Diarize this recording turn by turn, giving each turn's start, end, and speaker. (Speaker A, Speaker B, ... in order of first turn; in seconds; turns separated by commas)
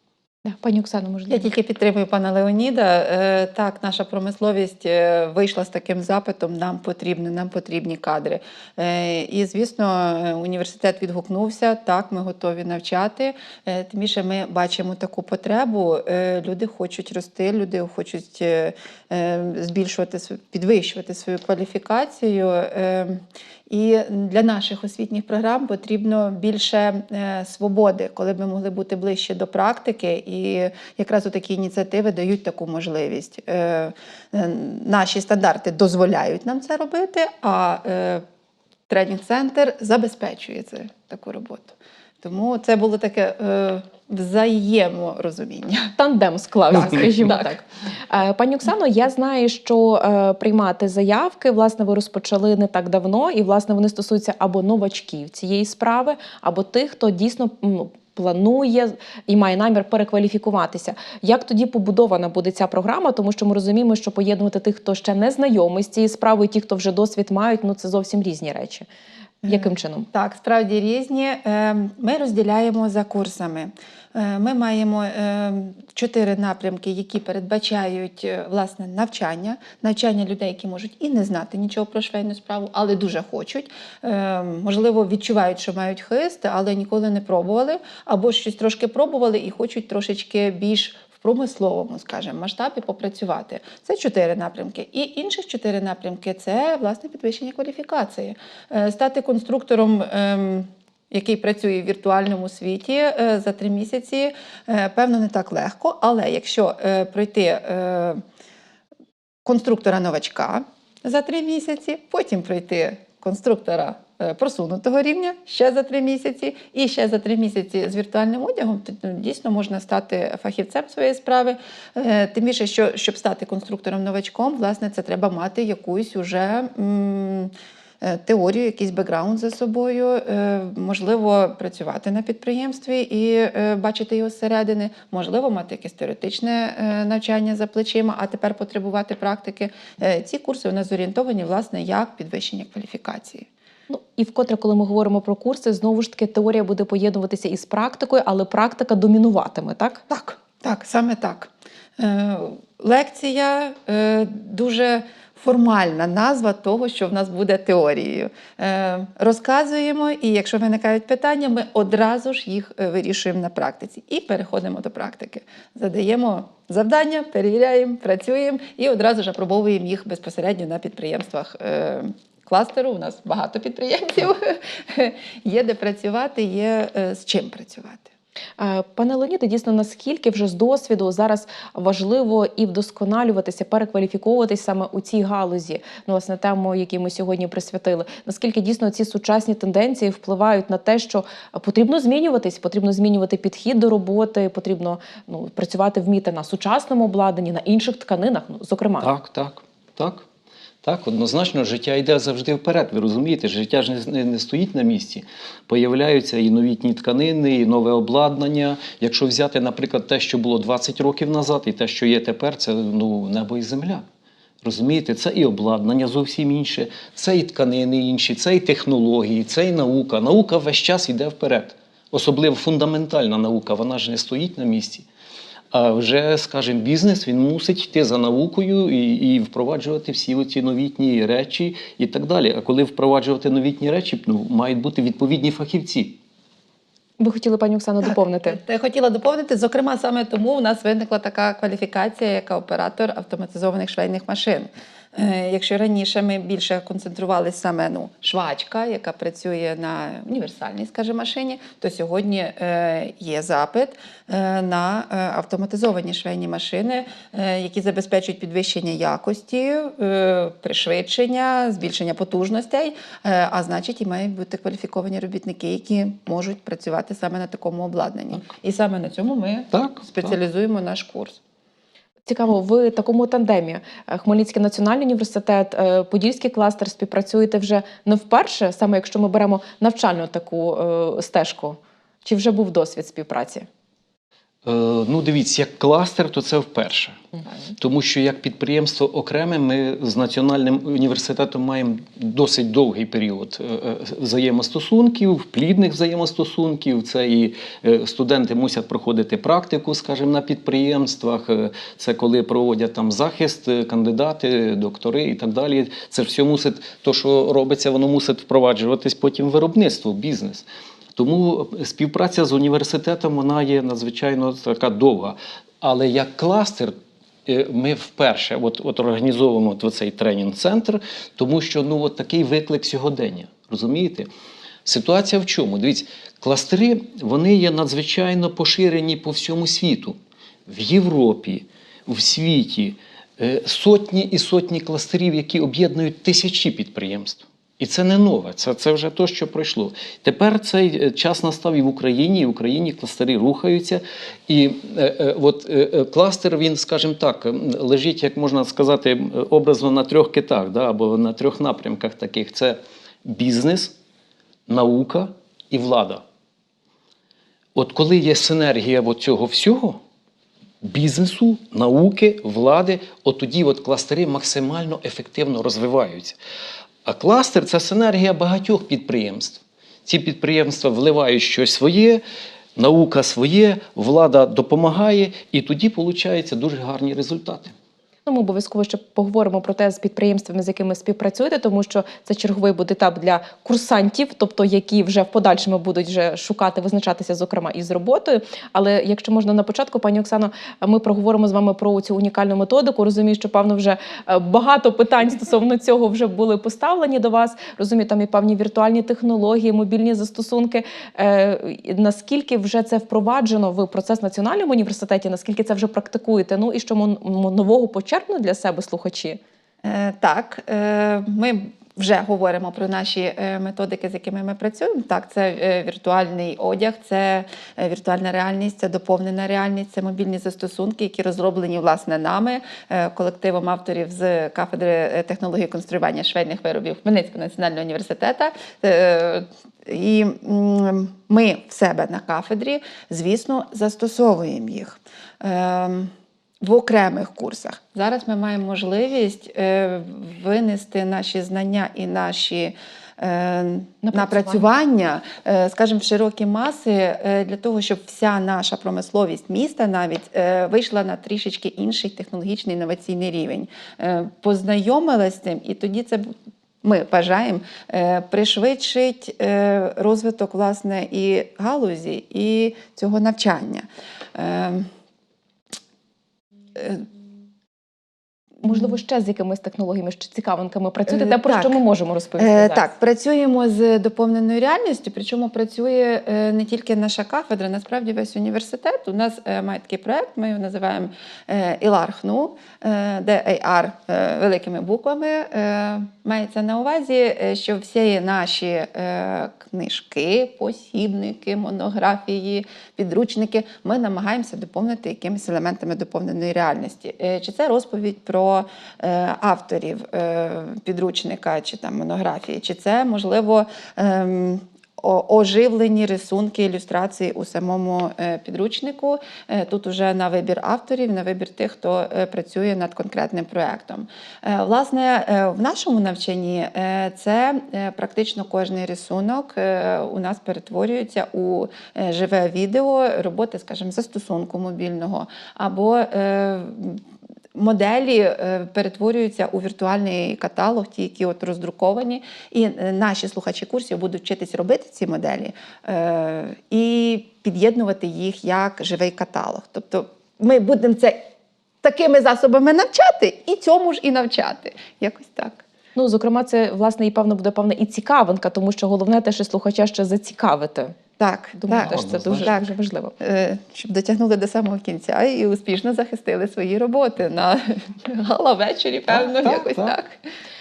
Speaker A: 0.5-1.5, Speaker B: 1.3-38.2, Speaker B: 38.9-46.0, Speaker A: 46.0-68.9, Speaker B: 46.7-47.6, Speaker B: 69.4-108.2, Speaker A: 69.5-70.1, Speaker B: 109.5-143.5, Speaker A: 143.9-150.1, Speaker B: 150.1-178.1, Speaker A: 178.6-199.1, Speaker C: 199.0-200.2, Speaker C: 200.8-214.0, Speaker C: 214.6-225.1, Speaker C: 225.7-236.2, Speaker A: 237.2-238.6, Speaker B: 238.4-271.4, Speaker C: 269.7-270.4, Speaker A: 272.3-283.7, Speaker C: 284.6-287.2, Speaker C: 287.8-316.9, Speaker C: 317.5-324.3, Speaker C: 324.9-330.2, Speaker C: 330.7-354.0, Speaker C: 354.7-356.2, Speaker C: 357.8-360.0, Speaker C: 360.8-366.4, Speaker C: 367.1-372.2, Speaker C: 372.8-377.7, Speaker A: 378.3-409.4, Speaker B: 409.8-464.9, Speaker A: 444.0-444.6, Speaker B: 466.8-467.1, Speaker A: 468.6-472.9, Speaker B: 471.1-471.8, Speaker B: 472.4-527.0, Speaker B: 527.5-541.3, Speaker B: 541.8-545.6, Speaker A: 546.0-551.0, Speaker B: 551.2-560.2, Speaker A: 551.6-553.1, Speaker C: 551.8-552.5, Speaker C: 559.1-560.0